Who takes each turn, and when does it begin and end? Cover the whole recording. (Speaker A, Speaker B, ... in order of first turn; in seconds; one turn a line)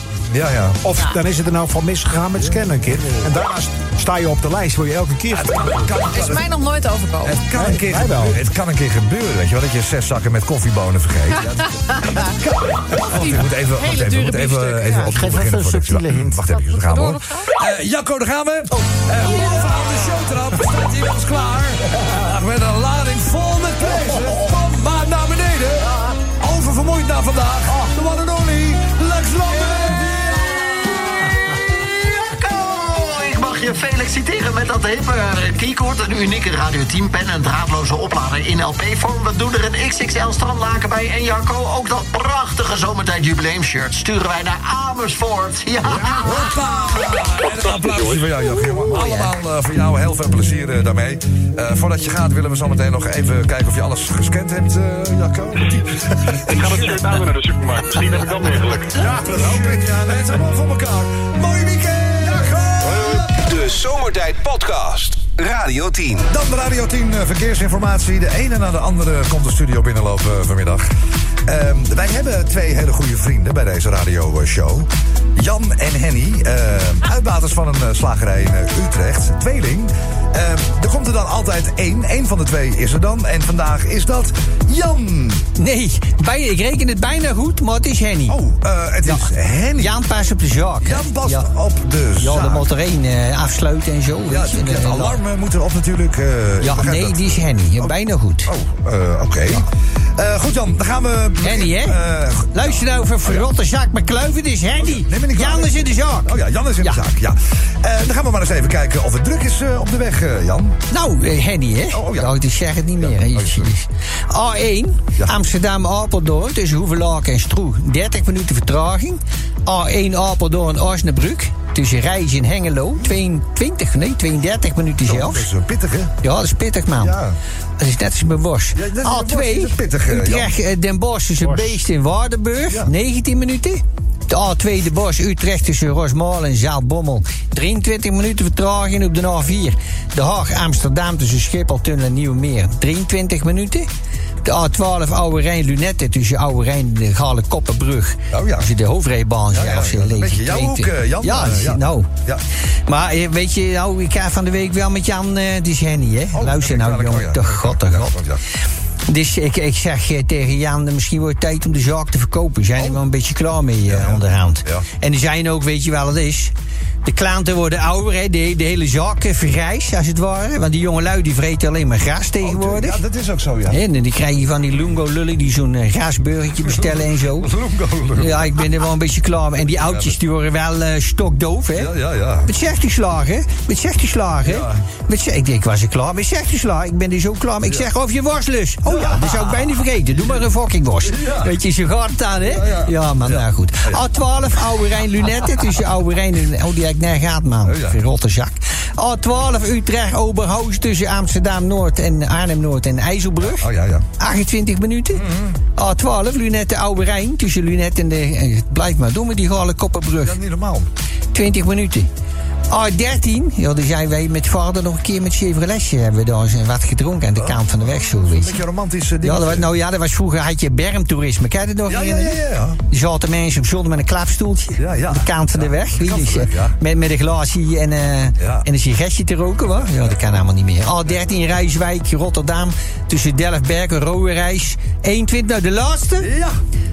Speaker A: 0.3-0.8
Speaker B: 0.8-5.9
Speaker A: 5.3-6.5
Speaker C: 6.1-7.4
Speaker A: 7.2-31.2
Speaker B: 7.5-8.4
Speaker C: 11.9-12.3
Speaker C: 12.9-15.1
Speaker D: 15.0-16.4
Speaker C: 16.5-17.5
Speaker D: 31.8-46.5
Speaker A: 46.1-57.2
Speaker E: 47.4-48.3
Speaker D: 48.7-49.3
Speaker E: 56.5-59.1
Speaker A: 58.9-63.4
Speaker B: 59.0-59.8
Speaker F: 62.9-66.3
Speaker A: 66.3-70.9
Speaker A: 71.5-85.5
Speaker G: 85.6-88.4
Speaker A: 88.3-90.0
Speaker G: 89.0-91.5
Speaker A: 90.8-92.7
Speaker G: 92.2-95.2
Speaker A: 94.3-97.9
Speaker G: 96.6-98.5
Speaker A: 98.5-99.7
Speaker A: 100.2-103.5
Speaker G: 101.4-102.0
Speaker G: 102.5-107.0
Speaker A: 104.8-110.8
Speaker G: 110.9-125.5
Speaker A: 111.9-112.3
Speaker A: 113.0-113.7
Speaker A: 125.0-126.1
Speaker G: 126.2-127.2
Speaker A: 127.0-127.4
Speaker G: 127.8-143.9
Speaker A: 128.8-130.5
Speaker G: 144.4-152.1
Speaker A: 148.3-148.7
Speaker A: 149.5-152.4
Speaker G: 152.9-158.2
Speaker A: 156.3-158.4
Speaker G: 159.1-166.5
Speaker A: 163.9-164.8
Speaker G: 167.1-173.0
Speaker A: 172.4-173.8
Speaker G: 173.7-177.5
Speaker A: 176.7-178.7
Speaker G: 178.2-181.9
Speaker A: 179.8-180.2
Speaker A: 181.8-182.5
Speaker G: 182.4-210.4
Speaker A: 184.5-184.8
Speaker A: 188.9-189.8
Speaker A: 191.1-191.5
Speaker A: 192.4-194.0
Speaker A: 197.7-198.0
Speaker A: 203.4-204.1
Speaker A: 205.1-205.6
Speaker A: 210.2-210.9
Speaker G: 211.3-212.1
Speaker G: 212.7-218.6
Speaker A: 217.3-219.7
Speaker G: 219.2-236.3
Speaker A: 221.9-222.8
Speaker A: 224.8-226.8
Speaker A: 228.4-228.7
Speaker A: 236.2-236.6